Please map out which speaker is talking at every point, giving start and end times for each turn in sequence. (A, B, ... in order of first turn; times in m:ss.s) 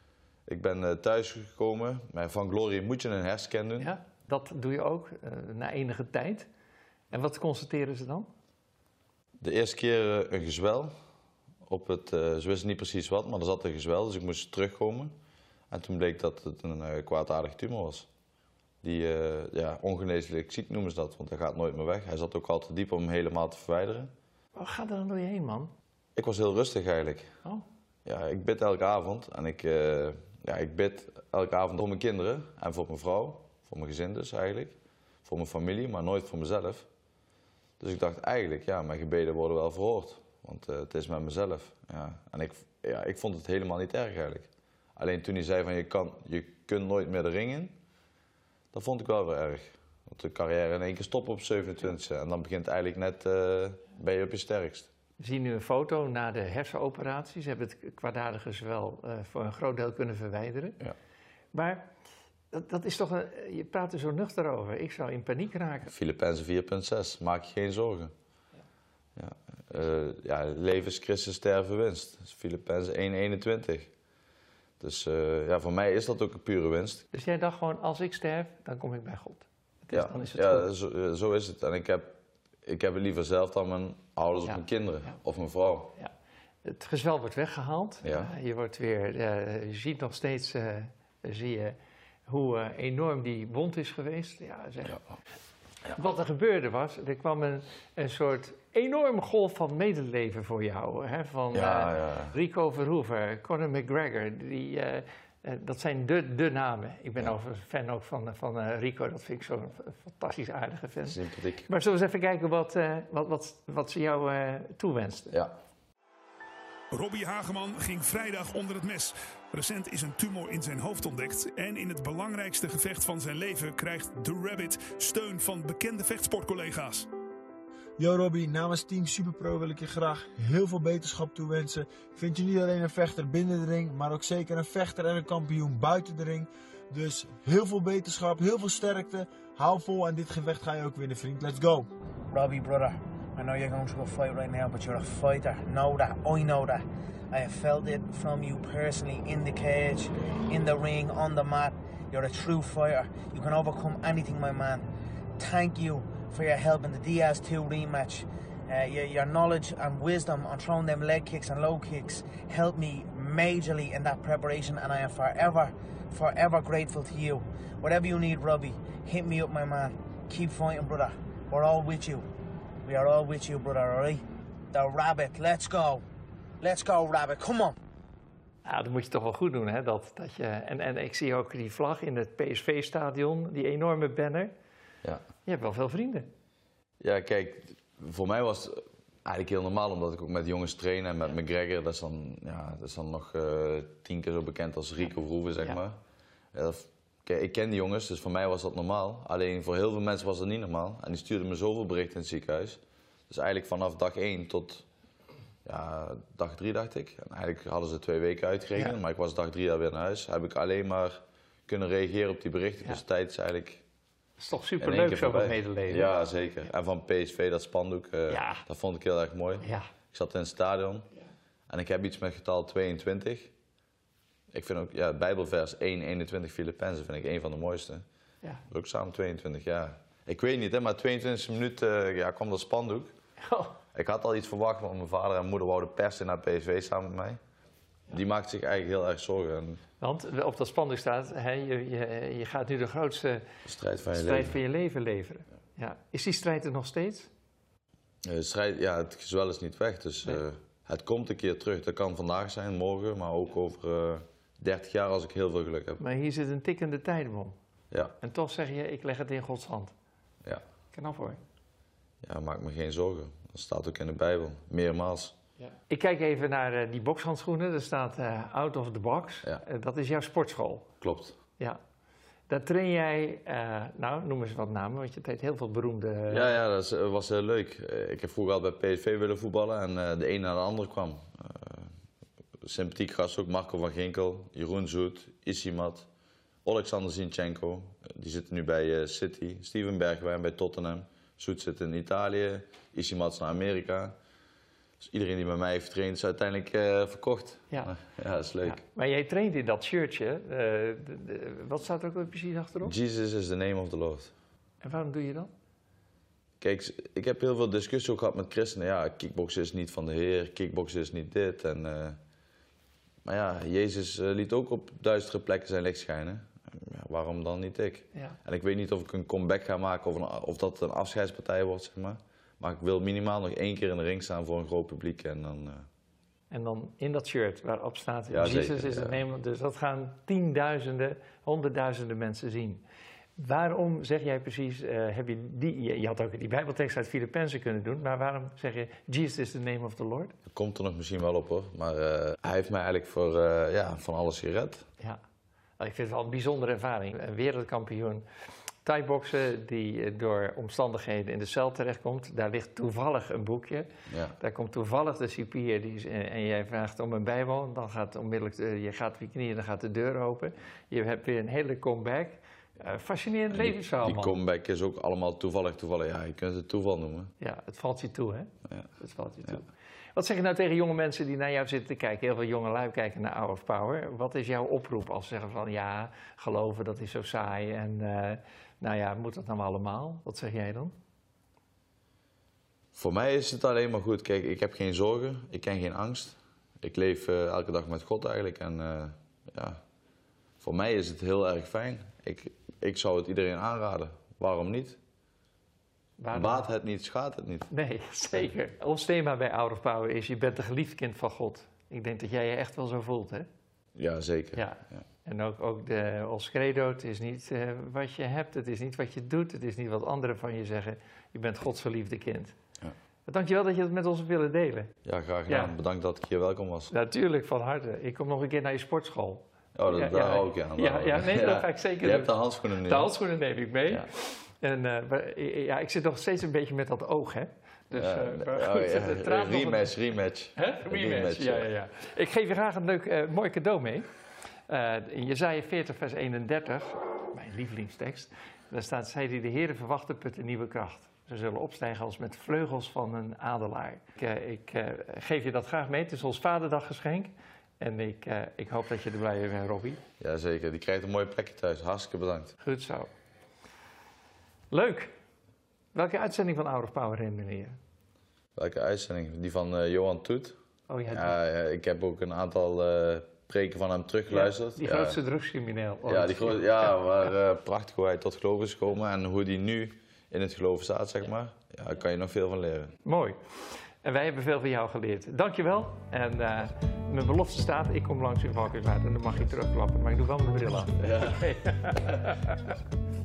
0:00.5-0:03.9 A
0:03.8-0:06.5 B
0:07.1-0:08.3 B
0:09.4-0:10.9 A
0:11.7-0:15.1 A
0:15.7-0:18.1 A
0:18.8-0:24.1 A
0:24.5-0:25.7 B
0:26.2-0:27.3 A
0:28.0-0:36.9 A
0:37.8-0:47.7 A
0:48.7-0:54.9 A
0:55.2-1:00.8 B
1:01.5-1:01.9 B
1:02.5-1:05.9 B
1:05.9-1:08.1 A
1:09.2-1:13.9 A
1:14.8-1:17.0 A
1:17.1-1:20.7 B
1:19.9-1:25.9 A
1:24.4-1:25.1 B
1:26.6-1:31.8 B
1:28.0-1:28.3 A
1:32.3-1:35.0 B
1:36.0-1:55.4 B
1:41.5-1:42.4 A
1:51.0-1:51.7 A
1:56.9-2:07.1 C
2:08.0-2:21.9 D
2:22.3-2:34.9 E
2:35.4-2:52.3 E
2:52.8-2:56.0 E
2:56.6-2:57.8 E
2:58.6-3:04.5 B
3:05.4-3:06.3 B
3:07.0-3:16.0 A
3:16.5-3:24.8 A
3:25.6-3:31.2 A
3:31.7-3:33.8 A
3:34.4-3:36.1 B
3:34.8-3:41.1 A
3:38.3-3:38.6 B
3:39.6-3:39.9 B
3:41.7-3:43.5 A
3:44.5-3:48.0 A
3:48.7-3:53.1 A
3:53.5-3:53.8 B
3:53.9-3:57.4 A
3:58.1-3:59.8 A
4:00.0-4:03.4 B
4:03.6-4:04.6 A
4:04.1-4:07.3 B
4:08.2-4:16.0 A
4:16.0-4:17.6 B
4:18.2-4:19.9 B
4:20.9-4:21.4 B
4:22.2-4:25.3 A
4:25.6-4:30.9 B
4:31.0-4:31.4 A
4:32.5-4:36.5 B
4:36.3-4:41.9 A
4:42.6-4:46.1 A
4:46.6-4:54.1 A
4:55.0-4:58.8 A
4:58.6-5:02.9 B
5:02.8-5:04.3 A
5:04.8-5:05.5 B
5:06.6-5:12.2 A
5:13.2-5:25.8 A
5:26.5-5:32.8 B
5:28.3-5:29.2 A
5:33.4-5:40.4 B
5:40.5-5:44.8 A
5:45.8-5:48.2 B
5:48.8-5:53.9 B
5:54.1-5:54.4 A
5:54.4-6:04.4 B
6:03.5-6:07.3 A
6:07.4-6:20.9 B
6:22.9-6:29.8 A
6:30.6-6:35.0 A
6:36.2-6:36.6 B
6:36.3-6:37.7 A
6:37.7-6:43.5 B
6:44.0-6:45.0 A
6:44.6-6:52.6 B
6:53.3-6:54.9 B
6:55.0-6:56.9 A
6:55.5-6:55.8 B
6:56.9-7:09.9 B
6:59.8-7:03.1 A
7:07.9-7:11.7 A
7:10.6-7:14.1 B
7:14.7-7:30.0 B
7:30.2-7:32.5 A
7:32.6-7:33.1 B
7:34.7-7:35.1 B
7:35.9-7:37.8 B
7:38.6-7:40.6 A
7:40.9-7:41.3 B
7:41.1-7:45.2 A
7:44.3-7:47.0 B
7:46.1-7:52.9 A
7:53.0-7:53.4 B
7:54.0-8:02.4 B
8:01.1-8:01.4 A